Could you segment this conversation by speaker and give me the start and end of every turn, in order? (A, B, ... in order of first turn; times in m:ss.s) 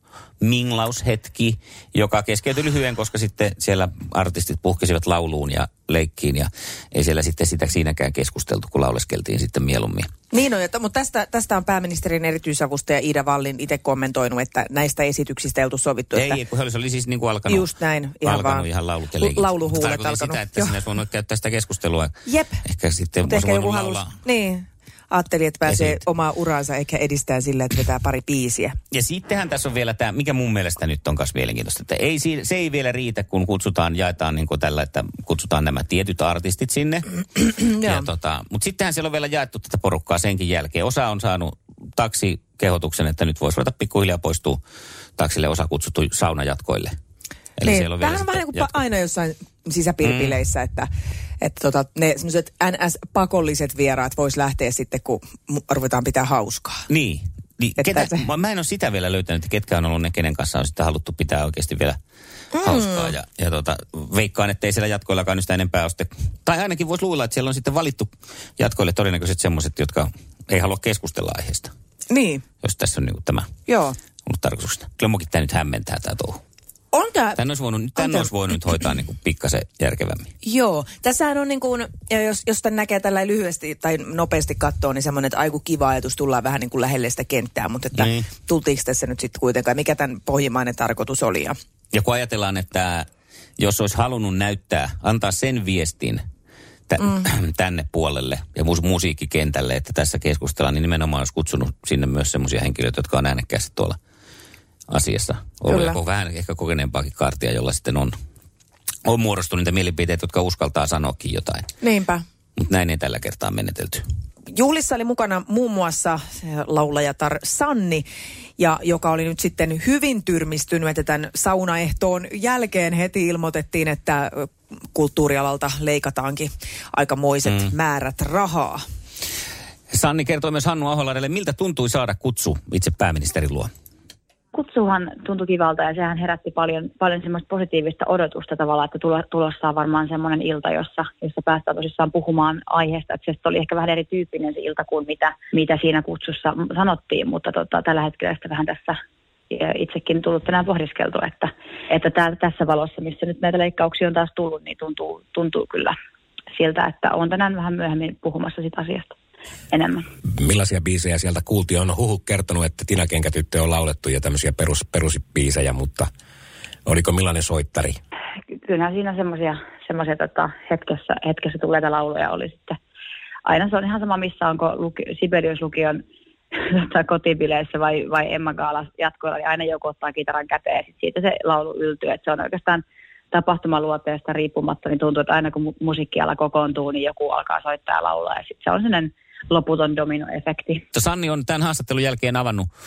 0:00.4-0:10.1 A
0:10.3-0:16.4 B
0:16.1-0:17.7 A
0:17.5-0:20.8 B
0:18.2-0:24.2 A
0:22.3-0:22.6 B
0:23.2-0:28.8 B
0:25.7-0:26.0 A
0:28.9-0:44.6 A
0:37.6-0:38.1 B
0:45.2-0:46.9 A
0:47.6-0:48.8 A
0:47.6-0:56.9 B
0:50.0-0:50.4 A
0:56.9-1:02.0 A
0:57.8-0:58.3 B
1:02.5-1:03.1 B
1:02.6-1:11.7 A
1:12.1-1:12.4 B
1:12.6-1:13.5 A
1:13.7-1:14.0 B
1:14.3-1:16.4 A
1:16.9-1:17.4 B
1:17.4-1:20.3 A
1:18.0-1:18.3 B
1:20.4-1:31.6 B
1:28.0-1:28.3 A
1:31.9-1:33.1 A
1:33.6-1:36.2 A
1:36.9-1:44.0 A
1:37.0-1:37.3 B
1:44.9-1:48.2 A
1:45.7-1:46.0 B
1:49.0-1:51.7 A
1:51.8-1:52.2 B
1:52.6-1:54.0 A
1:54.5-2:08.8 B
2:09.9-2:13.7 A
2:14.5-2:29.0 C
2:29.5-2:36.0 C
2:36.6-2:39.1 C
2:39.7-2:40.0 C
2:40.4-2:46.1 D
2:46.9-2:48.0 D
2:48.6-2:52.8 C
2:53.5-2:56.0 C
2:56.6-3:10.8 C
3:10.9-3:12.7 A